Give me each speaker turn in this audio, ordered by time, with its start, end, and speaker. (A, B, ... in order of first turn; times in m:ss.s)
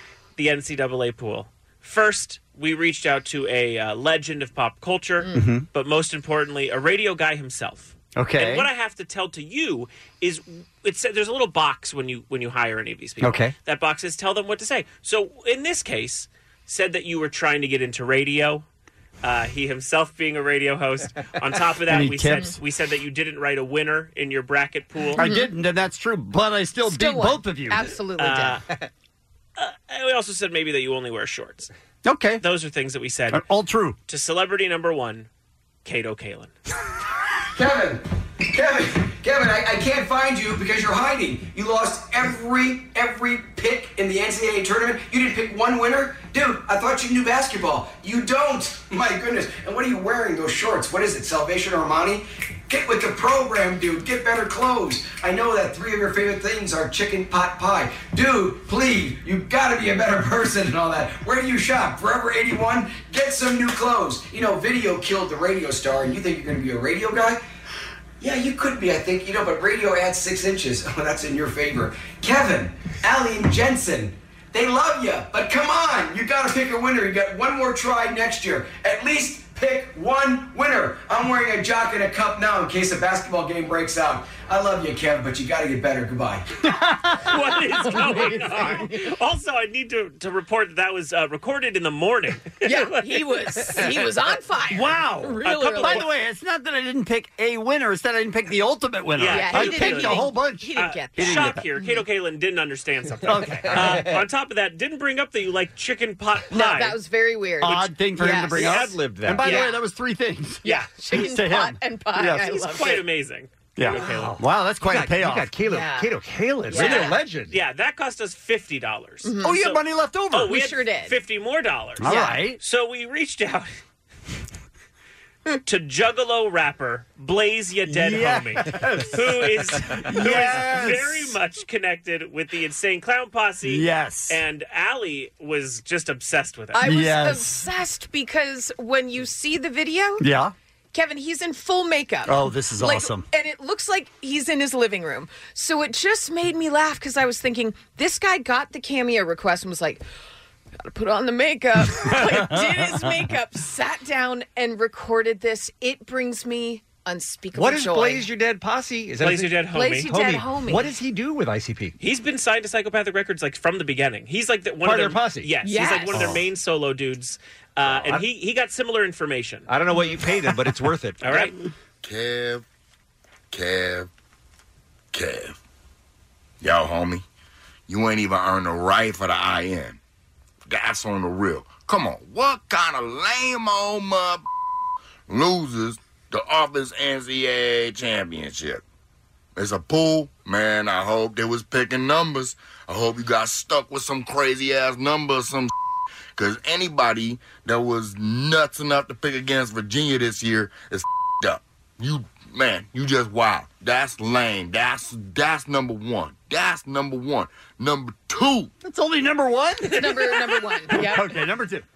0:00.4-0:18.7 A
0:05.3-0:05.7 B
0:08.2-0:08.7 B
0:13.2-0:13.5 B
0:19.2-0:25.2 A
0:21.9-0:22.6 B
0:25.2-0:27.9 B
0:25.2-0:25.5 C
0:26.9-0:28.6 C
0:28.2-0:28.6 A
0:29.6-0:31.7 A
0:32.0-0:32.4 B
0:32.4-0:33.4 A
0:33.3-0:34.0 B
0:34.1-0:35.3 A
0:35.8-0:36.5 A
0:37.5-1:07.4 D
1:08.2-1:26.4 D
1:26.7-1:28.3 B
1:27.3-1:33.9 A
1:27.8-1:29.0 C
1:32.6-1:36.1 C
1:34.7-1:41.6 B
1:35.4-1:36.1 A
1:39.2-1:47.0 A
1:39.3-1:42.0 C
1:43.2-1:44.1 B
1:43.7-1:44.2 E
1:46.5-1:48.8 C
1:47.6-1:52.6 B
1:48.6-1:49.6 A
1:48.6-1:49.6 E
1:49.4-1:49.8 C
1:50.6-1:53.0 C
1:52.5-1:54.4 A
1:53.8-1:55.5 B
1:53.9-1:57.6 E
1:55.7-1:56.1 C
1:56.7-1:57.2 C
1:56.7-2:03.7 A
1:59.2-1:59.6 C
1:59.4-2:00.6 B
2:00.5-2:01.2 C
2:02.0-2:02.6 B
2:02.0-2:02.4 C
2:05.7-2:16.8 A
2:07.9-2:11.4 B
2:13.6-2:14.4 B
2:16.7-2:20.2 C
2:16.8-2:17.7 B
2:20.2-2:20.5 B
2:20.9-2:30.0 C
2:22.3-2:23.3 B
2:30.8-2:38.3 C
2:32.0-2:33.2 B
2:37.6-2:42.0 E
2:39.2-2:40.1 A
2:39.7-2:40.9 C
2:42.0-2:49.7 A
2:44.8-2:45.5 E
2:45.6-2:46.3 C
2:46.1-2:46.4 E
2:47.9-2:48.2 E
2:49.7-2:51.5 E
2:51.2-2:51.5 A
2:52.0-2:52.6 F
2:53.5-2:54.1 F
2:55.1-2:55.6 F
2:56.6-2:57.2 F
2:57.9-3:00.0 F
3:00.7-3:04.4 F
3:05.3-3:08.8 F
3:09.6-3:15.7 F
3:16.4-3:28.7 F
3:28.8-3:30.2 B
3:29.9-3:31.3 C
3:30.9-3:31.8 B